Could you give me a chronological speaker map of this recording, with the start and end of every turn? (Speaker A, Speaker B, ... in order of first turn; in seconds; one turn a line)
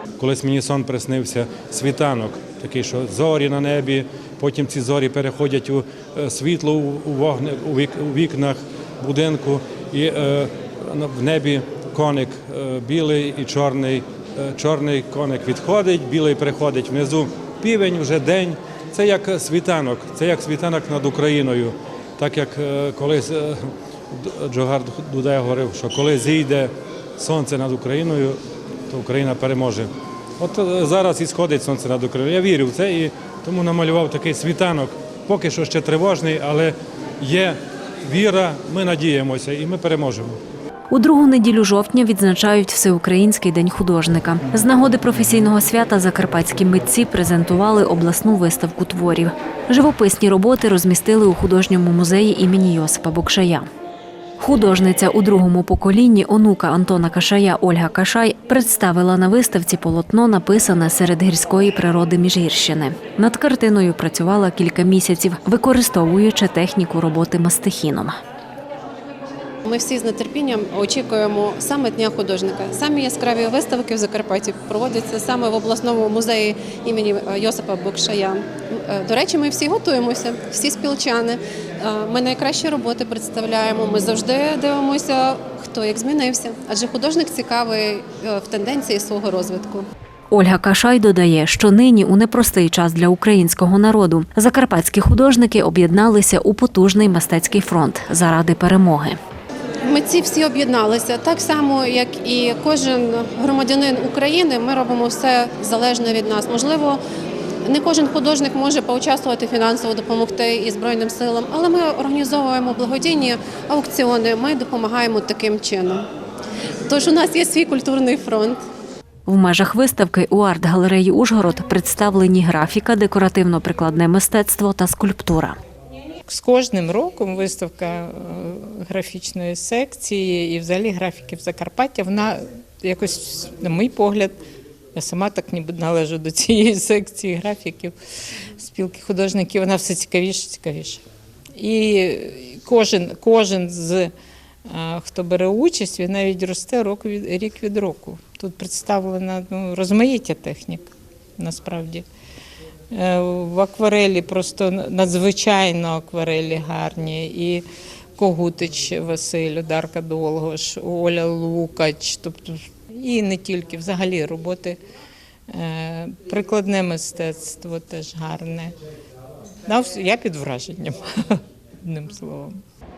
Speaker A: 0.2-28.4
Speaker A: 28.9-40.4
Speaker B: 40.9-53.7
Speaker B: 54.4-68.2
Speaker C: 69.7-89.8
Speaker B: 90.3-99.2
Speaker C: 99.8-107.0
Speaker C: 107.6-116.0
Speaker C: 116.9-118.6
Speaker B: 119.2-125.6
Speaker D: 126.3-134.3
Speaker D: 134.9-137.9
Speaker D: 138.6-141.0
Speaker D: 141.6-144.1
Speaker D: 144.7-152.0
Speaker D: 152.9-157.6
Speaker D: 158.2-164.8
Speaker D: 165.5-168.7
Speaker D: 169.6-172.6